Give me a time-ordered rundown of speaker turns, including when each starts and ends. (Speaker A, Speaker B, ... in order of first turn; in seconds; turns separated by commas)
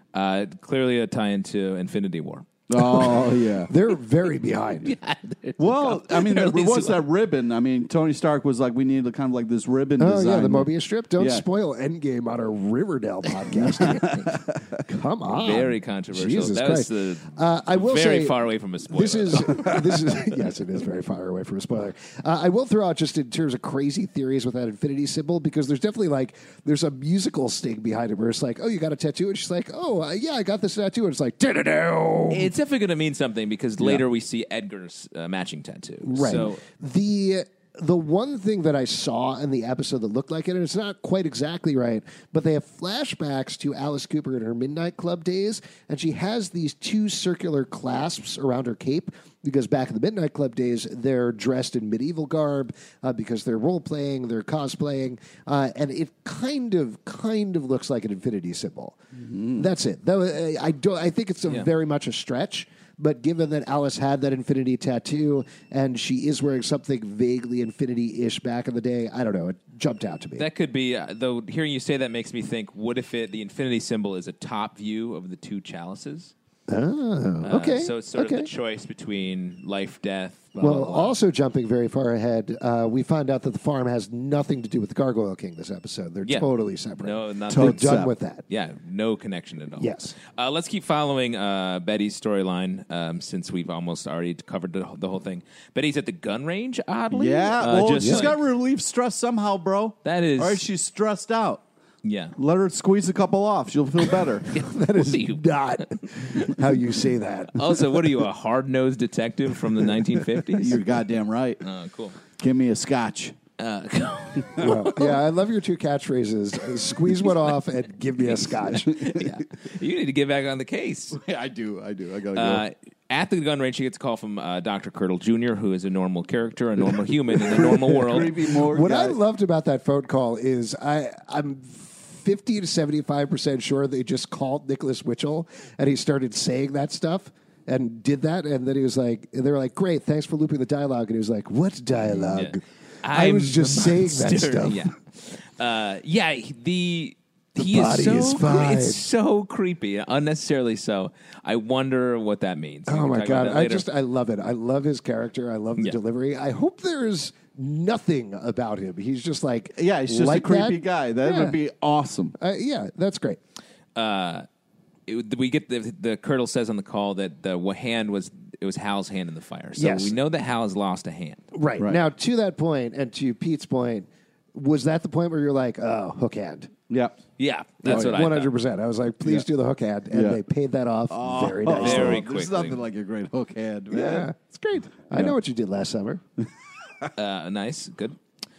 Speaker A: 0.1-2.5, Speaker B: 2.7-3.7, Speaker C: 3.7-4.9, Speaker A: 4.8-7.0, Speaker B: 5.6-11.4, Speaker C: 10.0-14.2, Speaker B: 13.6-14.6, Speaker C: 14.8-18.4, Speaker A: 15.3-19.9, Speaker C: 18.9-32.5, Speaker A: 32.3-36.6, Speaker C: 36.0-59.0, Speaker B: 59.3-59.6, Speaker C: 59.5-70.4, Speaker A: 70.4-76.3, Speaker C: 76.7-78.5, Speaker A: 77.4-81.1, Speaker C: 80.6-88.4, Speaker A: 87.0-98.4, Speaker B: 87.5-88.1, Speaker C: 89.8-90.1, Speaker B: 97.1-101.6, Speaker C: 98.0-98.3, Speaker A: 100.0-100.6, Speaker A: 102.0-102.3, Speaker B: 102.4-104.5, Speaker A: 104.5-105.4, Speaker C: 104.5-108.0, Speaker A: 106.2-106.5, Speaker A: 107.5-110.8, Speaker B: 110.6-111.6, Speaker A: 111.6-112.2, Speaker B: 112.4-113.3, Speaker A: 113.6-115.2, Speaker C: 114.6-119.3, Speaker A: 118.2-121.2, Speaker B: 121.1-122.6, Speaker A: 122.3-128.3, Speaker B: 127.4-129.2, Speaker C: 127.6-144.9, Speaker A: 142.0-153.8, Speaker C: 147.6-149.0, Speaker C: 152.9-161.6, Speaker B: 159.8-162.3, Speaker C: 162.4-163.4, Speaker A: 163.9-164.4, Speaker A: 165.1-171.4, Speaker C: 169.8-170.1, Speaker C: 171.5-176.7, Speaker B: 176.9-177.2, Speaker A: 177.4-178.5, Speaker C: 177.8-182.2, Speaker B: 177.9-178.2, Speaker B: 180.1-180.4, Speaker B: 181.1-184.3, Speaker A: 181.7-182.8, Speaker C: 183.9-186.2, Speaker A: 187.2-188.2